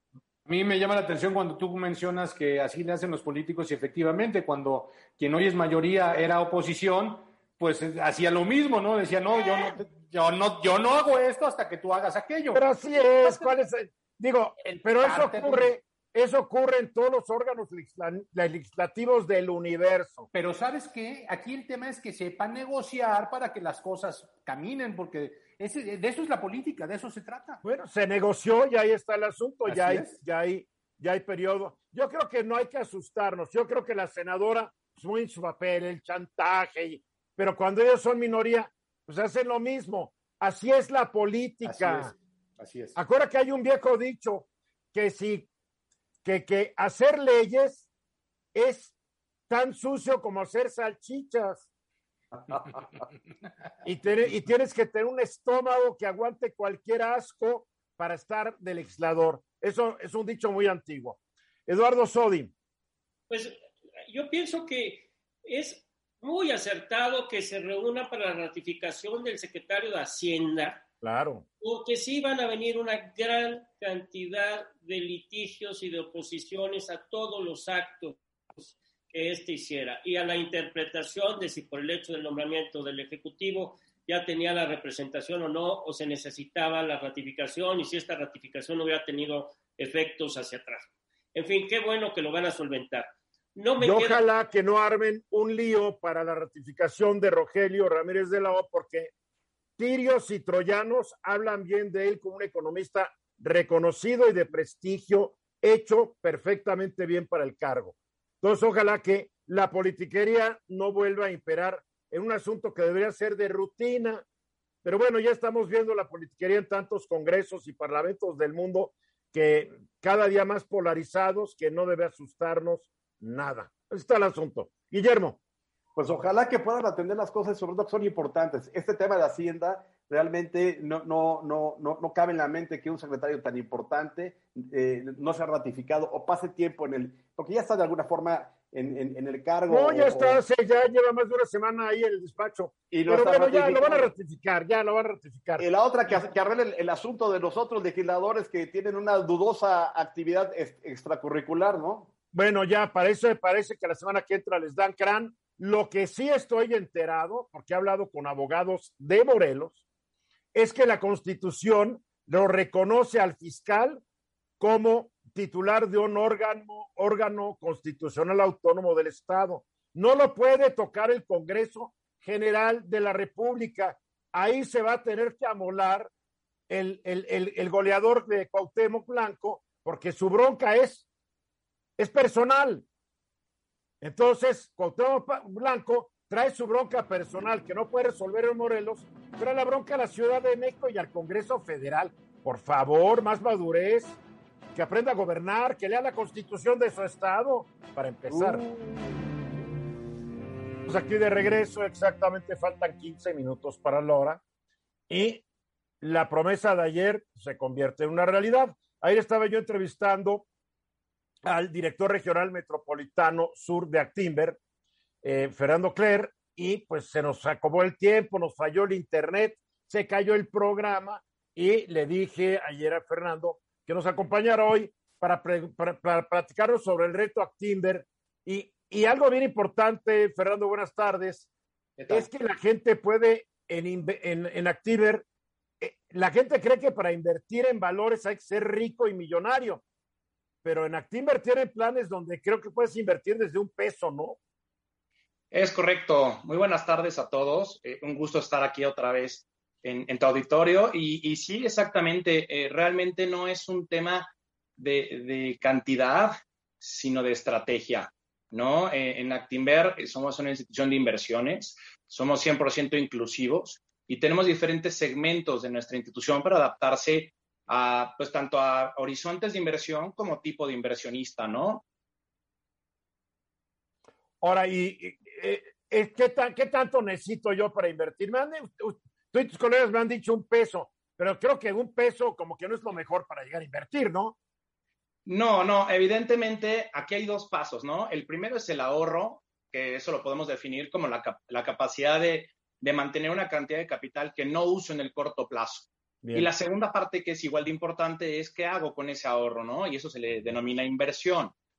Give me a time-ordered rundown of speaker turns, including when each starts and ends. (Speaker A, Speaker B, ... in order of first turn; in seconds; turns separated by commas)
Speaker A: 0.5-12.6, Speaker B: 12.5-20.3, Speaker A: 13.2-13.5, Speaker A: 14.7-15.7, Speaker A: 20.3-27.6, Speaker B: 27.6-42.1, Speaker A: 29.7-30.2, Speaker A: 41.6-43.0, Speaker B: 43.0-45.5, Speaker B: 46.2-47.9, Speaker B: 48.5-49.0, Speaker B: 49.5-51.7, Speaker B: 53.8-62.5, Speaker C: 63.3-70.8, Speaker B: 71.0-71.5, Speaker C: 71.6-94.2, Speaker B: 93.8-99.1, Speaker B: 99.8-114.2, Speaker B: 114.8-125.4, Speaker D: 126.0-140.4, Speaker B: 139.7-145.7, Speaker D: 142.9-144.1, Speaker D: 145.6-152.1, Speaker B: 152.3-159.8, Speaker B: 160.5-164.0, Speaker B: 164.6-176.1, Speaker B: 176.7-181.1, Speaker B: 182.0-182.8, Speaker B: 184.0-194.2, Speaker B: 194.8-198.6, Speaker A: 198.3-198.7, Speaker B: 200.9-204.4, Speaker B: 205.1-205.4, Speaker B: 206.0-210.5, Speaker B: 211.4-214.6, Speaker B: 215.2-231.5, Speaker E: 232.0-232.3, Speaker B: 232.1-235.2, Speaker B: 235.8-239.8, Speaker B: 240.6-244.4, Speaker E: 245.5-271.8, Speaker B: 274.4-284.4, Speaker E: 285.3-301.6, Speaker B: 296.2-296.5